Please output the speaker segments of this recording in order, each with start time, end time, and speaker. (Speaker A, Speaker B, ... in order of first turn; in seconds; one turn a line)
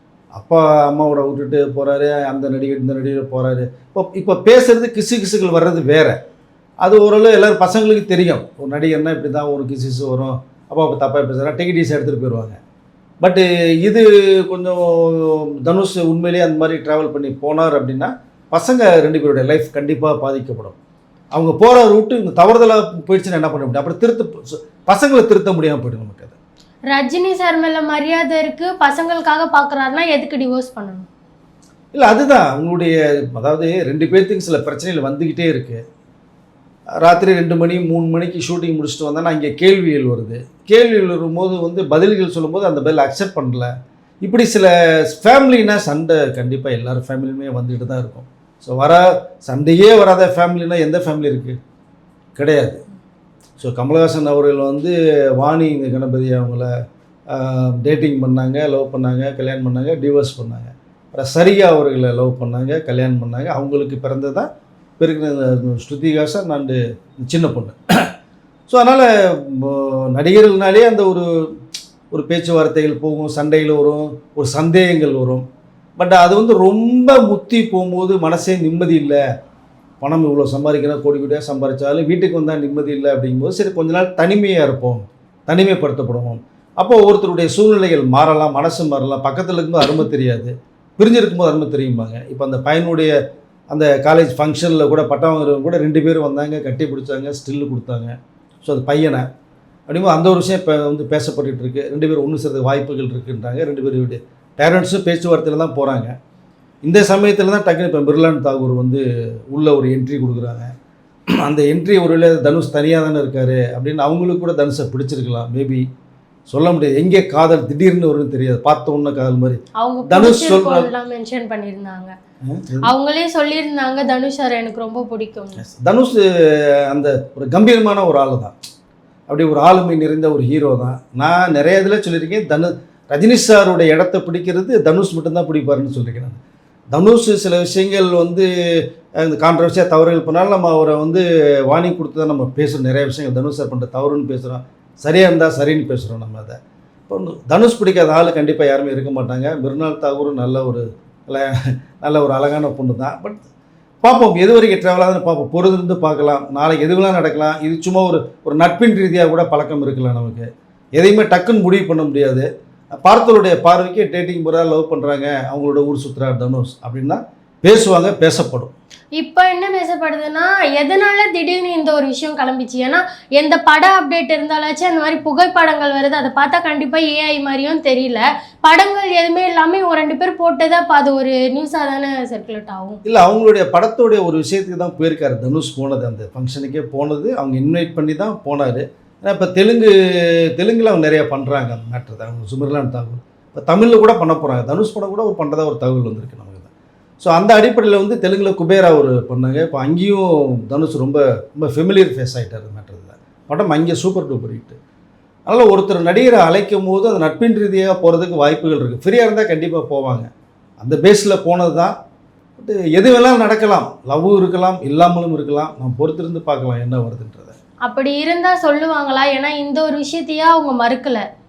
Speaker A: 0.3-6.2
Speaker A: 6.8-12.6
Speaker A: 13.2-20.8
Speaker A: 21.3-26.4
Speaker B: 26.9-31.1
Speaker A: 31.9-35.8
Speaker A: 37.0-51.6
Speaker A: 52.4-52.8
Speaker A: 53.6-56.7
Speaker A: 57.3-68.1
Speaker A: 68.7-71.6
Speaker A: 72.1-75.4
Speaker A: 76.0-79.2
Speaker A: 80.0-93.1
Speaker A: 93.7-99.3
Speaker A: 99.9-106.1
Speaker A: 106.8-110.7
Speaker A: 111.4-115.8
Speaker A: 116.5-120.9
Speaker B: 119.8-122.1
Speaker A: 122.5-122.9
Speaker B: 122.8-125.6
Speaker A: 125.6-126.2
Speaker A: 126.9-128.5
Speaker A: 129.3-136.4
Speaker A: 136.9-138.5
Speaker A: 139.2-146.6
Speaker A: 147.1-153.4
Speaker A: 154.0-162.5
Speaker A: 163.0-168.7
Speaker B: 169.2-183.0
Speaker A: 183.1-204.8
Speaker A: 205.5-210.3
Speaker A: 210.8-211.9
Speaker A: 212.6-217.6
Speaker B: 217.8-221.2